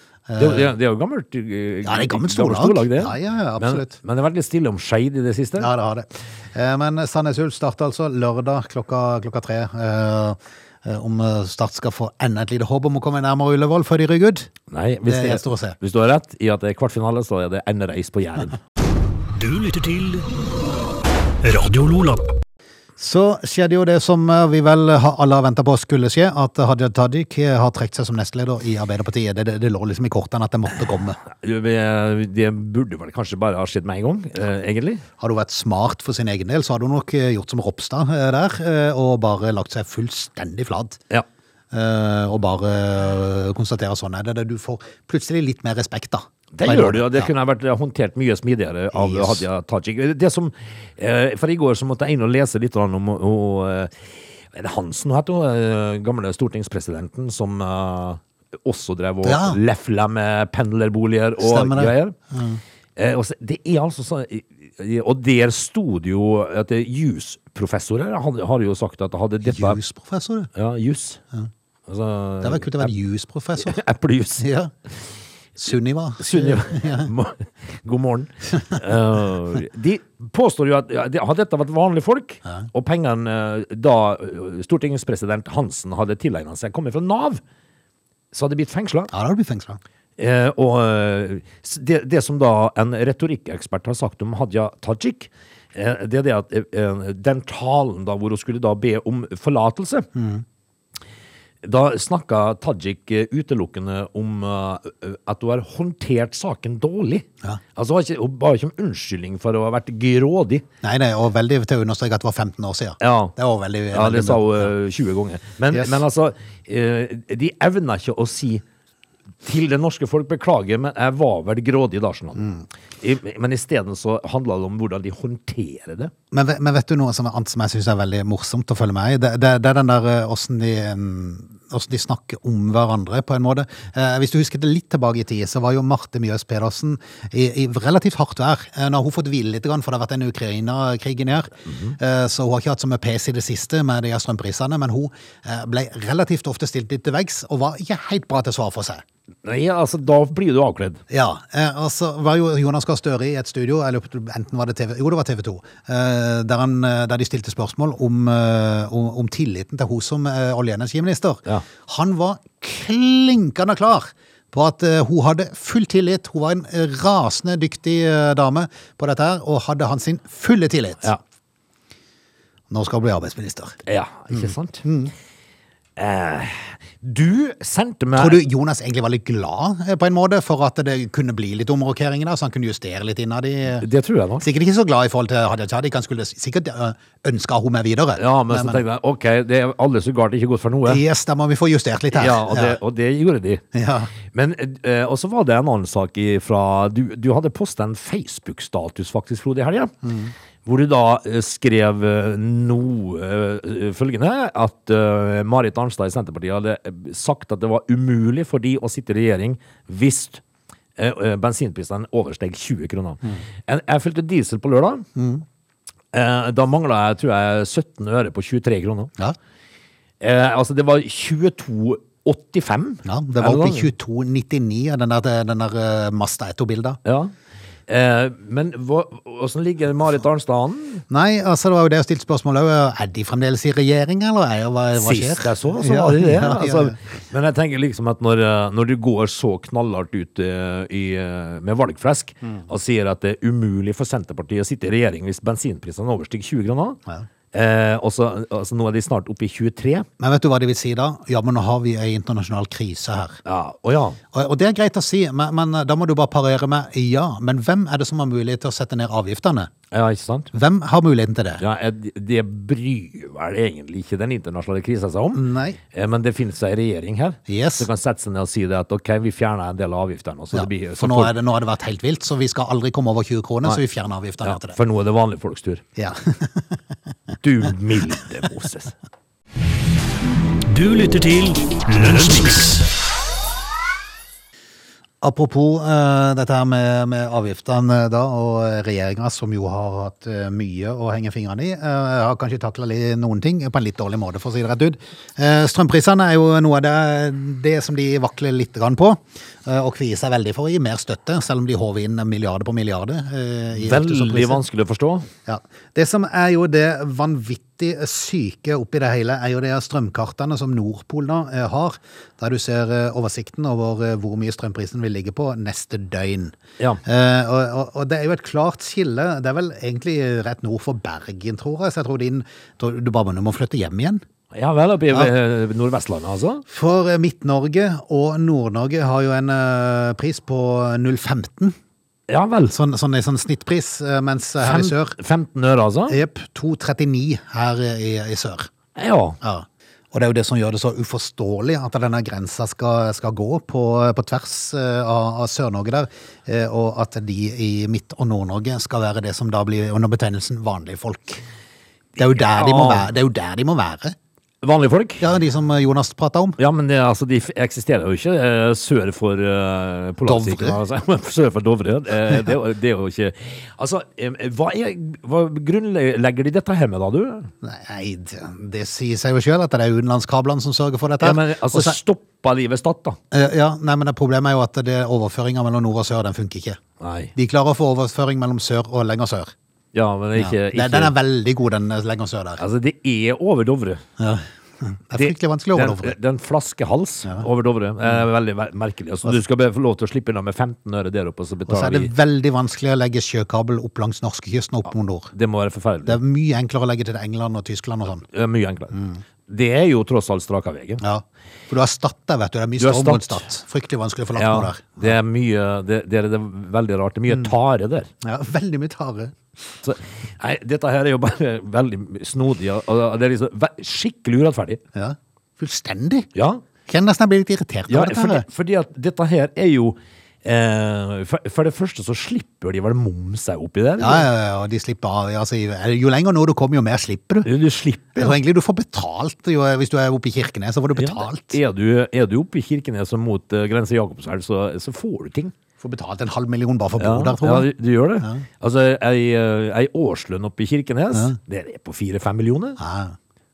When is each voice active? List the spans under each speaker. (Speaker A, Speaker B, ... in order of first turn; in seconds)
Speaker A: 0.3-0.7, 1.8-4.0, 5.6-14.5, 15.1-15.8, 23.0-31.2, 35.2-41.0, 41.7-47.3, 48.9-49.4, 59.2-59.6, 61.4-62.6, 69.4-70.5, 72.4-73.8, 74.4-74.7, 75.6-77.1, 89.1-89.8, 100.2-100.4, 110.8-114.7, 122.4-122.7, 126.3-149.0, 151.1-171.1, 172.7-173.8, 174.3-175.1, 178.2-183.9, 184.4-188.8, 190.9-192.8, 193.7-194.1, 200.0-200.3, 215.2-215.4, 223.1-227.0, 231.1-237.0, 250.2-253.4, 254.3-259.7, 260.5-261.6, 265.3-265.8, 267.5-267.9, 270.5-274.8, 276.0-276.8, 285.2-304.6, 305.5-324.2, 326.7-331.8, 332.7-335.2, 336.1-338.7, 339.4-351.4, 352.2-354.2, 355.2-356.6, 360.2-360.8, 367.6-372.0, 373.3-376.8, 377.4-379.5, 380.4-382.6, 384.2-386.2, 391.7-395.3, 396.1-398.3, 398.9-399.2, 401.0-405.1, 408.2-409.4, 414.9-416.3, 416.9-418.5, 424.0-427.5, 428.2-431.6, 435.8-437.7, 442.8-443.2
Speaker B: 0.4-5.7, 14.7-18.6, 31.4-35.0, 46.5-62.2, 63.0-69.8, 70.5-71.2, 71.9-72.9, 73.6-74.5, 76.2-87.4, 88.3-89.1, 90.2-100.1, 101.6-110.7, 113.0-113.3, 113.9-118.6, 119.4-122.5, 123.0-126.1, 141.7-142.0, 149.4-151.0, 173.8-174.8, 176.0-178.4, 183.8-184.5, 188.2-191.0, 192.1-193.6, 194.2-199.9, 200.7-210.4, 211.0-215.1, 216.1-219.1, 220.2-223.9, 227.1-227.3, 227.9-231.1, 234.9-247.0, 247.5-250.1, 253.4-254.2, 259.9-260.5, 261.6-271.4, 274.4-275.8, 277.4-278.9, 303.8-305.3, 324.5-326.6, 332.3-332.8, 334.6-336.2, 338.9-339.4, 352.4-353.1, 354.6-355.2, 356.6-367.5, 371.2-373.2, 377.0-377.3, 379.9-381.1, 382.6-384.0, 385.1-392.1, 395.3-396.2, 398.3-398.9, 399.5-401.0, 402.8-403.5, 404.4-408.1, 409.8-414.8, 416.3-416.6, 417.9-424.3, 427.4-428.4, 431.0-435.5, 437.0-442.8
Speaker C: 19.4-20.3, 21.4-22.2, 280.7-282.9